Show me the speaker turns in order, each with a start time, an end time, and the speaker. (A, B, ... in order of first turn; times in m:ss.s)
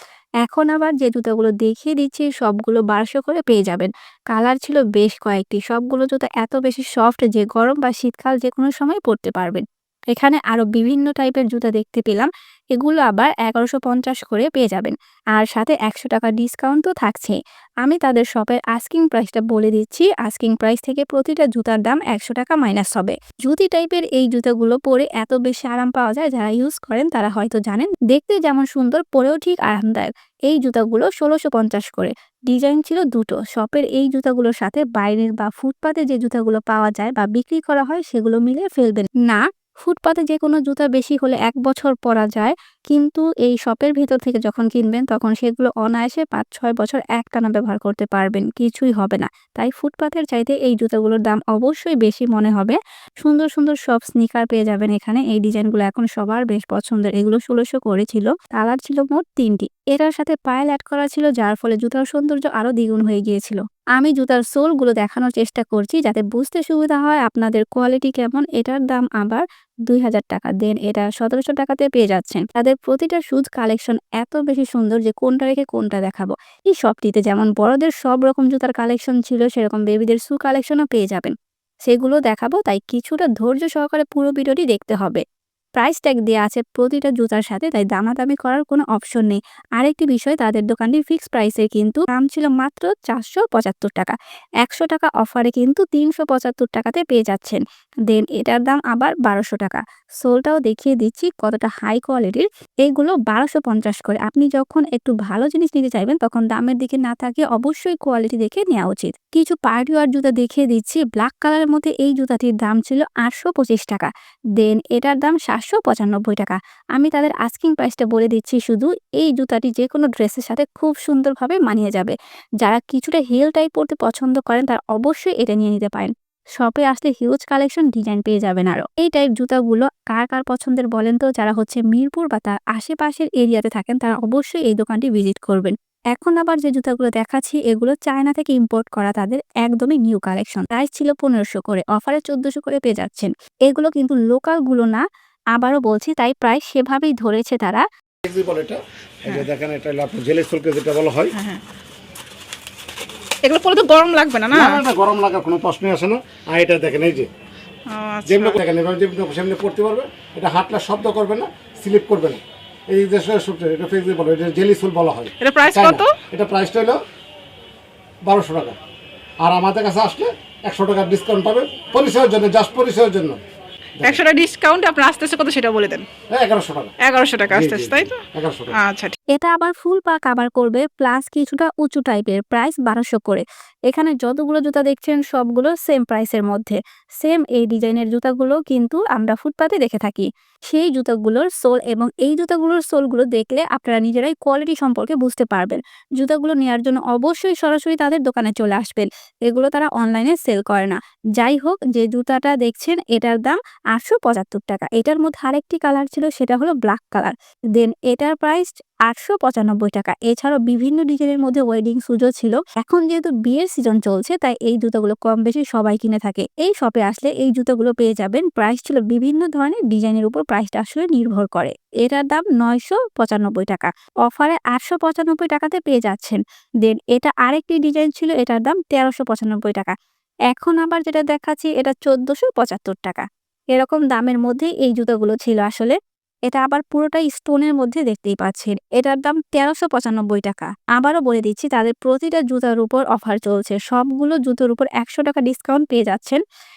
0:00.4-1:21.3 A
1:21.8-1:25.2 A
1:25.8-2:27.8 A
2:28.2-2:31.3 B
2:31.3-2:31.6 C
2:33.4-2:34.8 C
2:34.5-2:37.3 B
2:37.9-2:38.6 C
2:38.2-2:47.0 B
2:45.4-2:46.2 C
2:48.2-2:48.8 B
2:49.4-2:53.4 B
2:54.0-2:56.1 C
2:56.3-2:56.9 B
2:57.0-2:59.1 C
2:57.5-2:58.8 B
2:59.3-3:49.9 A
3:50.5-3:56.0 A
3:56.5-4:06.4 A